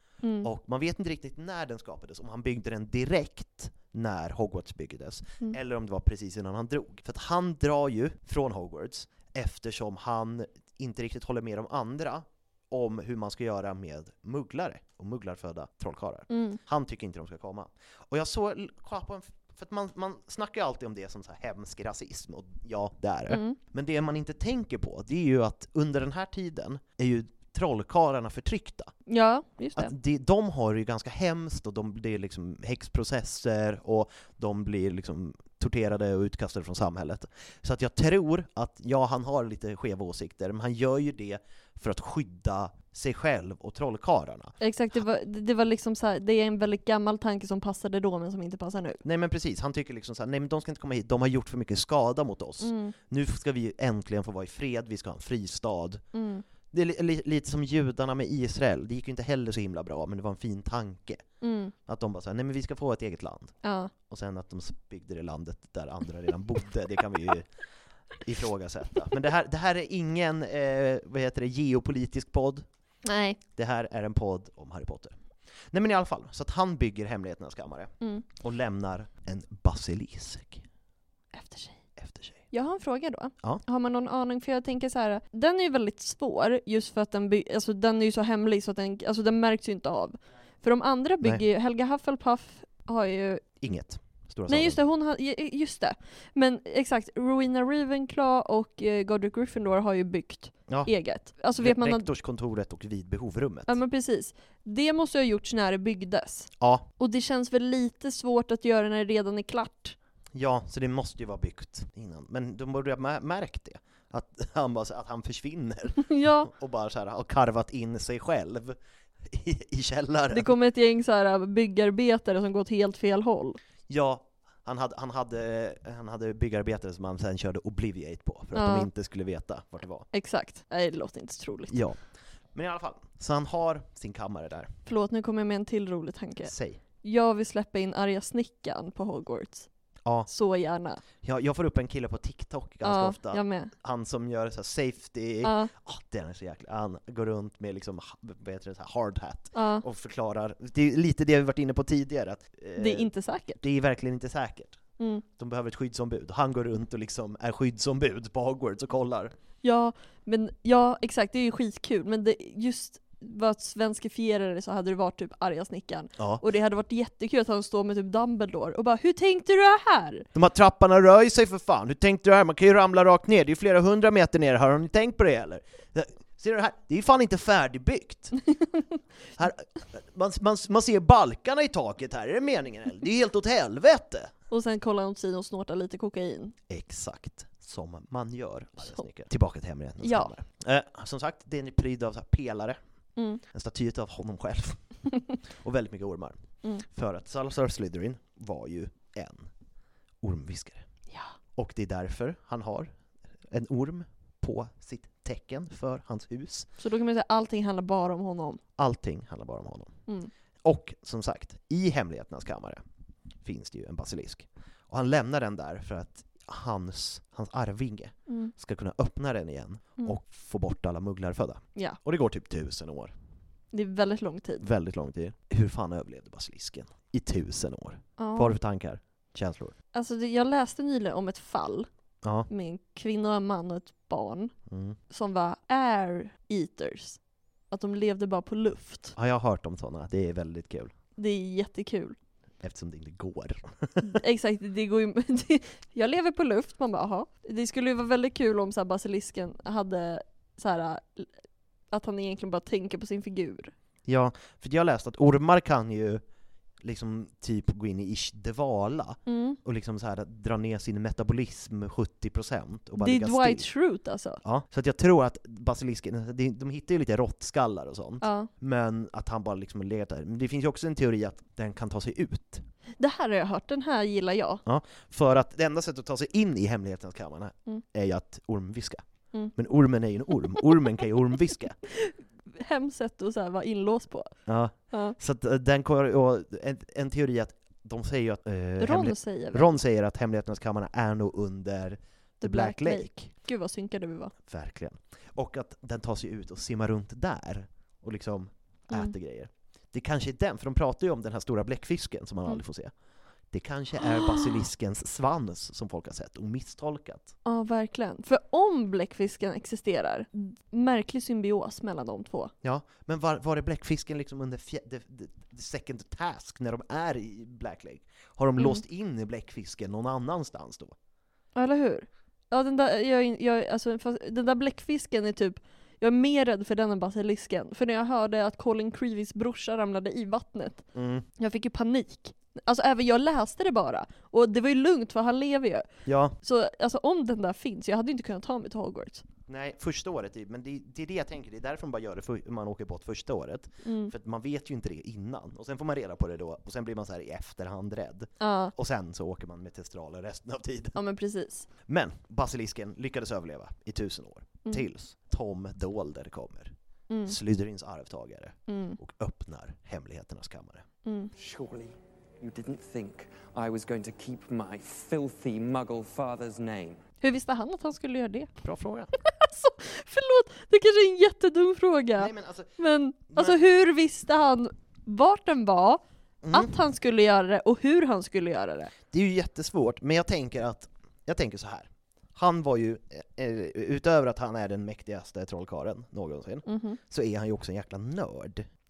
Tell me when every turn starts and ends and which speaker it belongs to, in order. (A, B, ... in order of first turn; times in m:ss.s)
0:00.2-0:00.5 A
0:00.4-0:28.9 B
0:16.3-0:16.6 A
0:23.3-0:23.6 A
0:29.1-0:29.9 A
0:29.8-0:45.0 B
0:44.6-0:49.0 A
0:49.0-0:56.0 B
0:52.6-0:53.0 A
0:56.1-0:56.4 A
0:56.7-1:01.3 B
1:01.4-1:01.7 A
1:01.9-1:03.5 B
1:03.6-1:03.9 A
1:04.1-1:07.5 B
1:08.2-1:12.7 B
1:13.0-1:13.4 A
1:13.6-1:15.2 B
1:15.7-1:20.6 B
1:21.3-1:21.8 A
1:22.0-1:22.4 B
1:22.5-1:33.4 A
1:33.6-1:34.8 B
1:34.5-1:42.1 A
1:41.6-1:43.8 B
1:43.7-1:50.0 A
1:46.6-1:46.8 B
1:50.3-2:00.5 B
1:56.0-1:56.5 A
2:00.3-2:03.6 A
2:03.9-2:10.1 B
2:08.5-2:08.9 A
2:10.1-2:11.8 A
2:11.7-2:12.0 B
2:12.5-2:14.7 B
2:14.9-2:19.7 A
2:16.4-2:16.8 B
2:20.3-2:21.0 A
2:21.2-2:34.8 B
2:22.8-2:23.7 A
2:25.4-2:25.7 A
2:29.5-2:29.8 A
2:32.8-2:33.6 A
2:35.0-2:35.2 A
2:35.4-2:39.3 B
2:39.6-2:50.3 A
2:46.2-2:46.4 B
2:50.3-2:58.4 B
2:59.4-3:04.3 B
3:04.5-3:06.6 A
3:06.7-3:12.8 B
3:10.0-3:10.3 A
3:13.2-3:13.4 A
3:13.5-3:14.8 B
3:15.6-3:19.5 B
3:20.2-3:20.9 B
3:21.6-3:22.9 B
3:23.5-3:26.7 B
3:26.8-3:28.6 A
3:28.8-3:29.9 B
3:30.6-3:32.8 B
3:33.4-3:43.2 B
3:38.3-3:38.5 A
3:43.7-3:44.7 A
3:44.6-3:49.8 B
3:48.2-3:48.6 A
3:49.9-3:51.9 A
3:52.2-3:52.5 B
3:52.5-3:54.5 A
3:54.7-3:55.0 B
3:55.1-3:57.2 A
3:57.7-3:59.2 A
3:59.2-4:00.9 B
4:01.2-4:02.2 A
4:02.6-4:04.2 B
4:04.0-4:11.3 A
4:11.9-4:13.7 A
4:14.1-4:16.2 B
4:16.8-4:23.6 B
4:19.3-4:19.6 A
4:23.0-4:24.4 A
4:24.4-4:32.6 B
4:28.2-4:28.5 A
4:33.0-4:34.6 A
4:34.6-4:39.0 B
4:39.6-4:41.8 B
4:41.9-4:44.3 A
4:44.5-4:53.2 B
4:44.9-4:45.2 A
4:48.8-4:49.7 A
4:52.4-4:54.3 A
4:54.5-5:02.9 B
5:03.5-5:07.3 B
5:07.4-5:12.5 A
5:12.6-5:21.0 B
5:21.6-5:30.8 A
5:30.9-5:31.3 B
5:31.4-5:35.9 A
5:36.1-5:36.4 B
5:36.4-5:39.2 A
5:39.5-5:51.0 B
5:43.8-5:44.1 A
5:48.4-5:48.7 A
5:51.0-5:51.7 A
5:51.9-6:00.8 B
5:57.1-5:57.4 A
5:58.7-5:59.0 A
6:01.0-6:01.3 A
6:01.4-6:07.0 C
6:07.2-6:08.5 A
6:08.6-6:09.1 B
6:09.3-6:16.0 A
6:12.2-6:12.7 B
6:13.3-6:13.6 B
6:16.4-6:16.7 B
6:16.5-6:18.9 A
6:19.1-6:28.7 B
6:26.7-6:27.0 A